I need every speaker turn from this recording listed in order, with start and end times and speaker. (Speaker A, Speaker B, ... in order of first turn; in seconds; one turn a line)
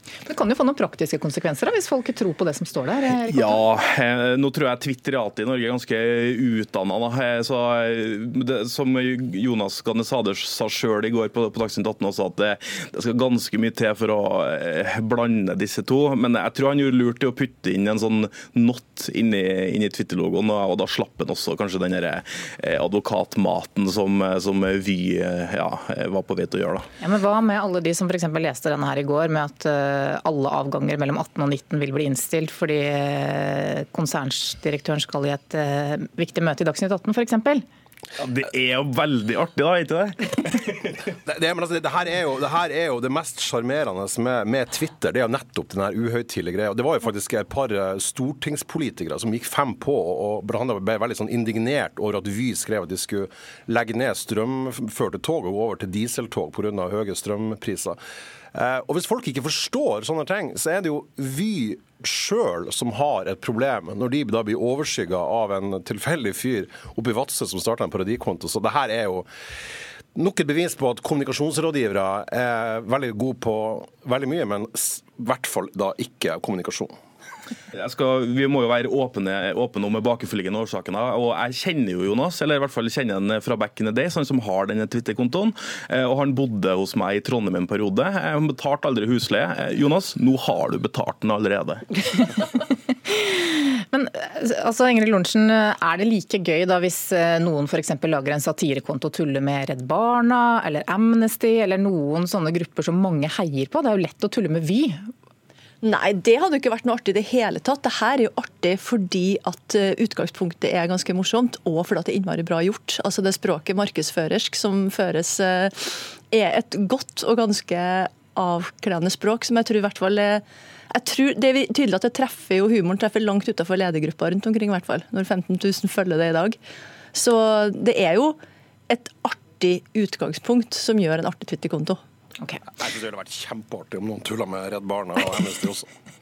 Speaker A: 0.3-3.6
Speaker B: 3.3-26.9
Speaker A: 27.0-37.6
Speaker B: 38.2-41.0
Speaker C: 41.2-58.0
Speaker C: 58.5-69.3
Speaker C: 70.2-76.9
Speaker B: 77.8-92.0
Speaker A: 93.1-105.1
Speaker D: 105.8-126.6
Speaker D: 127.1-128.4
Speaker D: 128.9-132.0
Speaker C: 132.8-135.9